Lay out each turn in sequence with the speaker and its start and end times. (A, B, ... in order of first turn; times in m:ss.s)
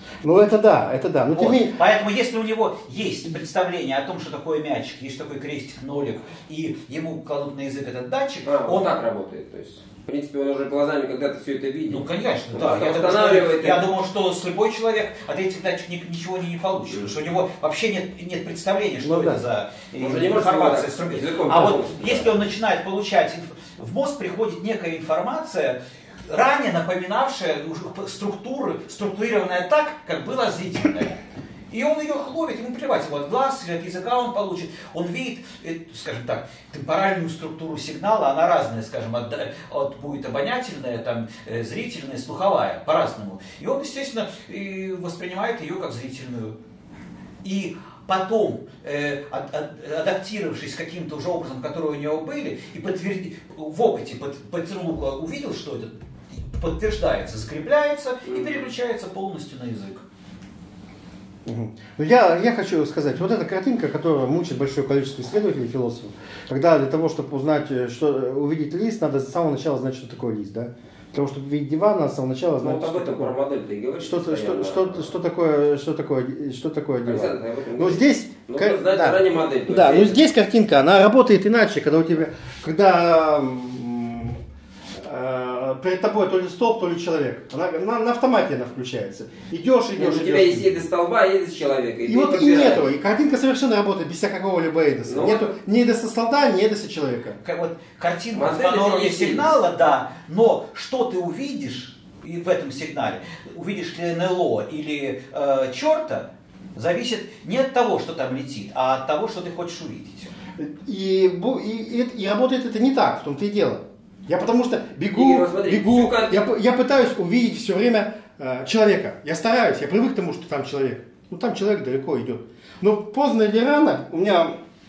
0:00.2-0:01.7 A
0:01.3-0:08.9 B
0:08.4-0:13.9 C
0:11.9-0:31.2 B
0:19.0-0:19.4 A
0:20.0-0:22.4 C
0:31.7-0:46.6 B
0:47.4-1:00.0 B
0:58.2-0:58.6 C
1:01.4-1:13.3 A
1:12.6-1:15.1 C
1:14.0-1:24.4 A
1:17.0-1:20.2 C
1:25.0-1:30.7 A
1:30.0-1:32.9 C
1:32.0-1:37.4 A
1:35.0-1:35.5 C
1:37.4-1:50.3 B
1:38.3-1:39.5 C
1:50.6-2:04.6 A
1:55.1-1:56.4 C